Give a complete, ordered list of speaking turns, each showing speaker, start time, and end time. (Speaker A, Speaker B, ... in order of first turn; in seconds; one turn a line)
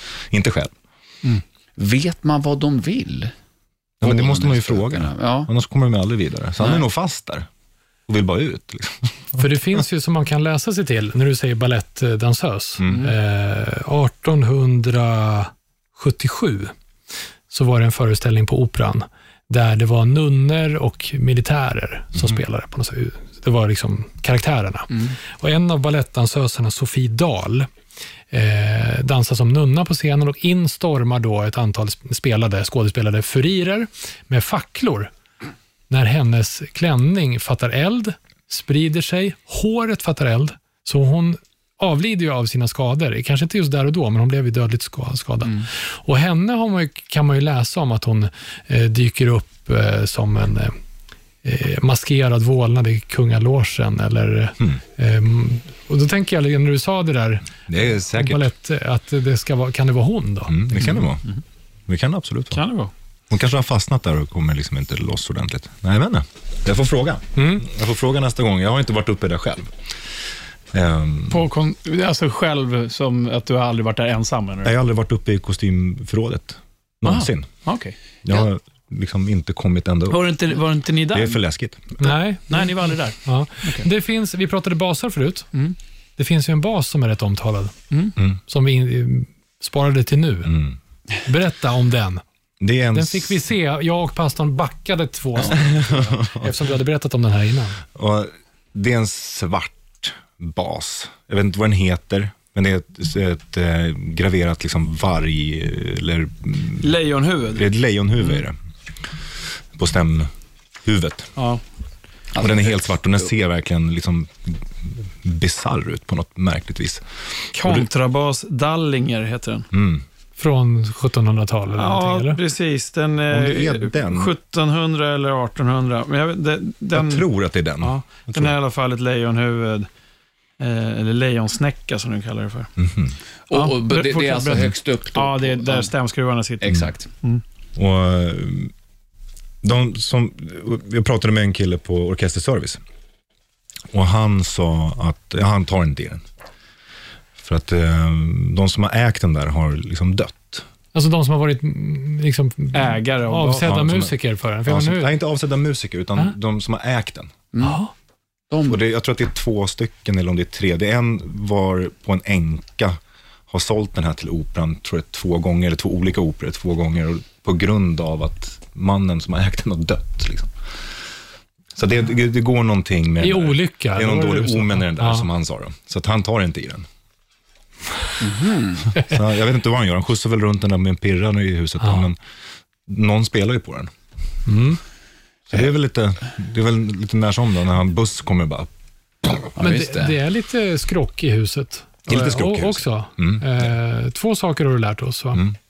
Speaker A: 0.3-0.7
Speaker B: 1.8-3.3
Speaker A: 4.0-7.5
Speaker B: 4.0-5.5
Speaker A: 8.1-9.4
Speaker C: 9.4-16.7
Speaker A: 12.8-13.1
Speaker C: 17.5-27.7
Speaker C: 28.3-35.1
Speaker C: 35.9-50.7
Speaker C: 51.4-60.9
Speaker A: 57.7-58.5
Speaker A: 60.5-61.2
Speaker A: 61.9-62.6
Speaker D: 62.5-62.9
Speaker A: 63.3-69.7
Speaker C: 67.4-67.7
Speaker A: 70.7-71.5
Speaker D: 71.3-74.8
Speaker A: 74.6-77.5
Speaker D: 77.0-78.0
Speaker A: 78.2-80.4
Speaker D: 80.1-81.4
Speaker A: 81.1-82.0
Speaker C: 82.0-85.5
Speaker D: 82.0-83.9
Speaker C: 86.2-87.7
Speaker C: 88.5-90.5
Speaker A: 90.5-90.8
Speaker C: 91.2-92.2
Speaker A: 92.6-93.4
Speaker C: 92.9-97.8
Speaker A: 95.4-96.5
Speaker A: 98.0-107.0
Speaker D: 106.8-107.7
Speaker A: 107.5-108.6
Speaker A: 109.8-110.3
Speaker A: 110.8-111.3
Speaker D: 111.4-111.6
Speaker B: 112.3-112.9
Speaker A: 112.4-114.6
Speaker A: 115.2-117.9
Speaker D: 117.5-119.7
Speaker A: 119.7-120.0
Speaker C: 120.4-122.4
Speaker D: 121.8-127.3
Speaker A: 123.3-124.3
Speaker A: 126.9-128.6
Speaker D: 127.8-129.9
Speaker D: 130.6-132.7
Speaker A: 132.8-133.2
Speaker B: 133.5-135.9
Speaker D: 133.5-137.4
Speaker B: 136.6-137.1
Speaker A: 137.8-138.7
Speaker A: 139.6-142.8
Speaker A: 143.9-146.2
Speaker A: 147.4-150.7
Speaker C: 150.9-155.2
Speaker D: 152.7-153.8
Speaker A: 153.6-157.3
Speaker B: 157.5-157.8
Speaker C: 157.6-157.9
Speaker B: 158.5-158.8
Speaker A: 158.7-163.0
Speaker A: 163.5-170.5
Speaker A: 171.8-176.9
Speaker C: 173.2-175.3
Speaker B: 178.2-179.0
Speaker A: 179.0-182.2
Speaker C: 181.8-182.1
Speaker A: 182.9-183.9
Speaker C: 184.5-184.8
Speaker A: 185.5-188.7
Speaker B: 189.6-190.2
Speaker C: 189.6-195.5
Speaker A: 192.1-193.7